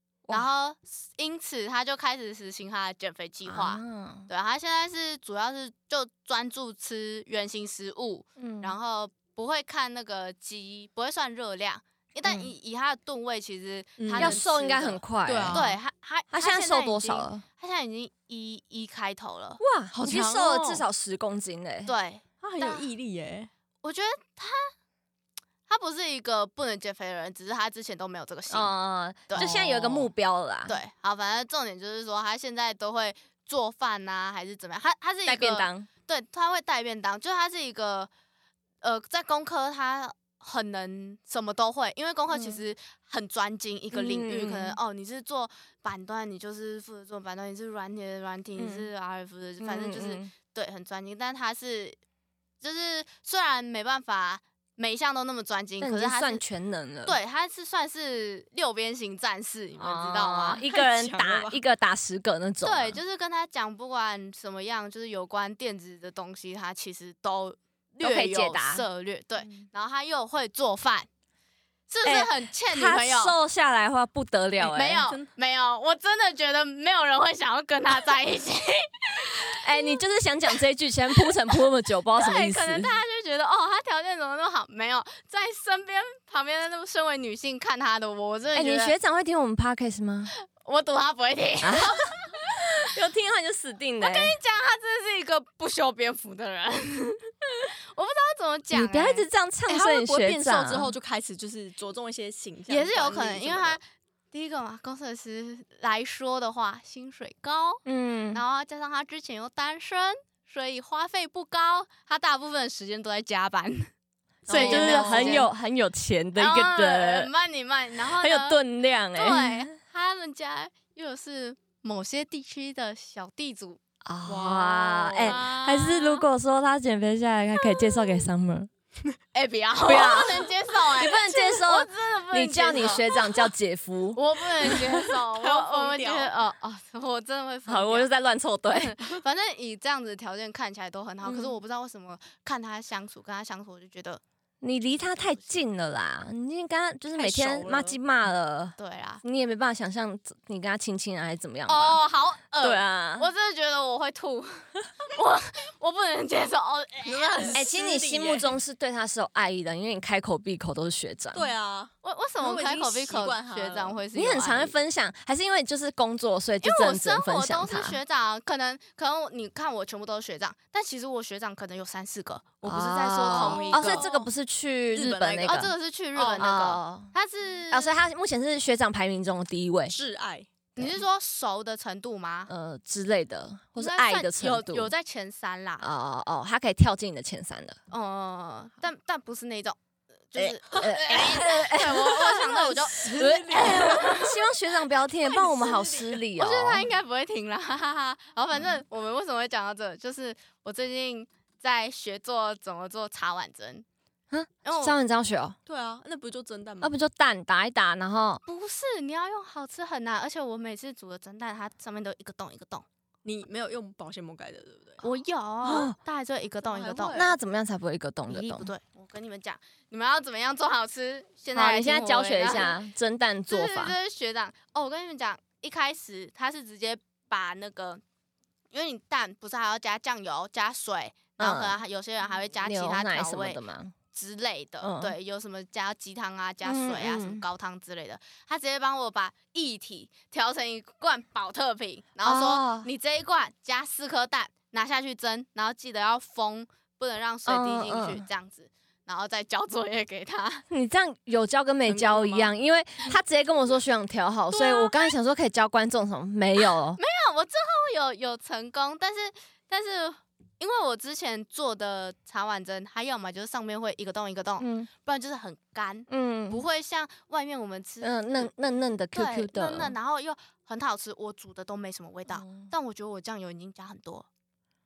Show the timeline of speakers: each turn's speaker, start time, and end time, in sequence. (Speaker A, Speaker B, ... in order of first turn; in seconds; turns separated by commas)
Speaker A: 0.3-19.6, Speaker B: 3.5-4.3, Speaker B: 8.4-8.8, Speaker B: 12.2-12.5, Speaker C: 14.0-14.4, Speaker B: 14.2-15.8, Speaker C: 15.3-15.7, Speaker B: 16.3-17.4, Speaker B: 19.6-21.9, Speaker C: 19.9-20.9, Speaker A: 21.9-22.9, Speaker C: 22.4-23.5, Speaker A: 23.8-24.7, Speaker A: 25.7-28.7, Speaker B: 28.5-30.8, Speaker A: 29.3-30.0, Speaker C: 29.4-29.8, Speaker A: 30.7-38.1, Speaker B: 35.3-35.9, Speaker A: 38.8-52.0, Speaker B: 42.3-42.6, Speaker B: 43.9-44.8, Speaker B: 48.6-48.9, Speaker B: 49.6-50.3, Speaker A: 52.6-56.4, Speaker B: 55.8-57.2, Speaker A: 57.1-60.6, Speaker B: 59.8-63.0, Speaker C: 60.7-61.6, Speaker A: 62.6-71.1, Speaker B: 68.0-68.8, Speaker A: 71.9-73.3, Speaker B: 72.0-75.1, Speaker A: 74.6-80.6, Speaker C: 75.0-75.3, Speaker B: 79.5-82.9, Speaker A: 81.2-81.6, Speaker A: 82.2-89.0, Speaker B: 88.5-90.3, Speaker A: 90.5-92.9, Speaker B: 91.6-92.0, Speaker B: 92.8-94.4, Speaker A: 94.0-99.3, Speaker B: 98.7-100.9, Speaker C: 99.7-103.8, Speaker A: 102.7-107.8, Speaker B: 107.9-108.4, Speaker A: 108.3-113.9, Speaker C: 114.5-115.5, Speaker A: 114.5-115.5, Speaker B: 114.5-117.3, Speaker A: 116.4-118.6, Speaker B: 118.0-119.7, Speaker A: 119.1-123.8, Speaker B: 124.0-128.7, Speaker C: 124.3-125.4, Speaker A: 124.7-126.2, Speaker A: 127.6-128.2, Speaker A: 129.3-133.5, Speaker B: 129.8-135.0, Speaker A: 134.2-138.1, Speaker C: 135.3-136.3, Speaker B: 137.7-139.2, Speaker A: 138.7-144.2, Speaker B: 141.2-141.6, Speaker B: 144.6-152.0, Speaker A: 145.0-145.6, Speaker C: 147.1-148.0, Speaker A: 148.8-149.2, Speaker A: 151.7-157.6, Speaker B: 152.6-153.3, Speaker C: 157.0-158.5, Speaker B: 157.5-161.5, Speaker C: 161.3-163.9, Speaker A: 162.0-164.8, Speaker B: 164.1-168.0, Speaker A: 166.6-174.1, Speaker B: 172.6-177.1, Speaker C: 173.2-174.3, Speaker C: 174.9-175.6, Speaker A: 175.4-177.9, Speaker B: 177.7-179.9, Speaker C: 179.9-180.5, Speaker B: 180.8-181.0, Speaker A: 180.8-182.5, Speaker B: 182.5-184.9, Speaker A: 183.8-185.9, Speaker B: 185.8-187.8, Speaker A: 187.9-189.8, Speaker A: 190.3-194.3, Speaker B: 190.3-196.9, Speaker C: 190.8-194.3, Speaker C: 195.2-196.2, Speaker A: 196.4-203.9, Speaker B: 204.3-205.6, Speaker A: 204.7-205.0, Speaker C: 205.7-206.9, Speaker B: 206.8-208.4, Speaker A: 208.4-212.9, Speaker C: 213.2-215.0, Speaker A: 215.0-217.3, Speaker B: 215.6-216.0, Speaker C: 216.6-217.3, Speaker B: 217.1-218.7, Speaker A: 218.3-222.8, Speaker B: 221.6-224.0, Speaker A: 223.5-228.0, Speaker A: 228.7-233.6, Speaker B: 231.4-231.8, Speaker B: 232.6-233.9, Speaker A: 234.1-250.7, Speaker B: 234.8-235.2, Speaker B: 236.6-237.4, Speaker B: 242.2-242.9, Speaker B: 247.5-248.2, Speaker B: 250.7-257.0, Speaker C: 251.9-252.5, Speaker A: 254.5-255.1, Speaker A: 257.0-268.5, Speaker B: 264.6-264.9, Speaker B: 266.1-266.6, Speaker B: 268.0-269.9, Speaker A: 269.1-274.3, Speaker B: 272.3-272.7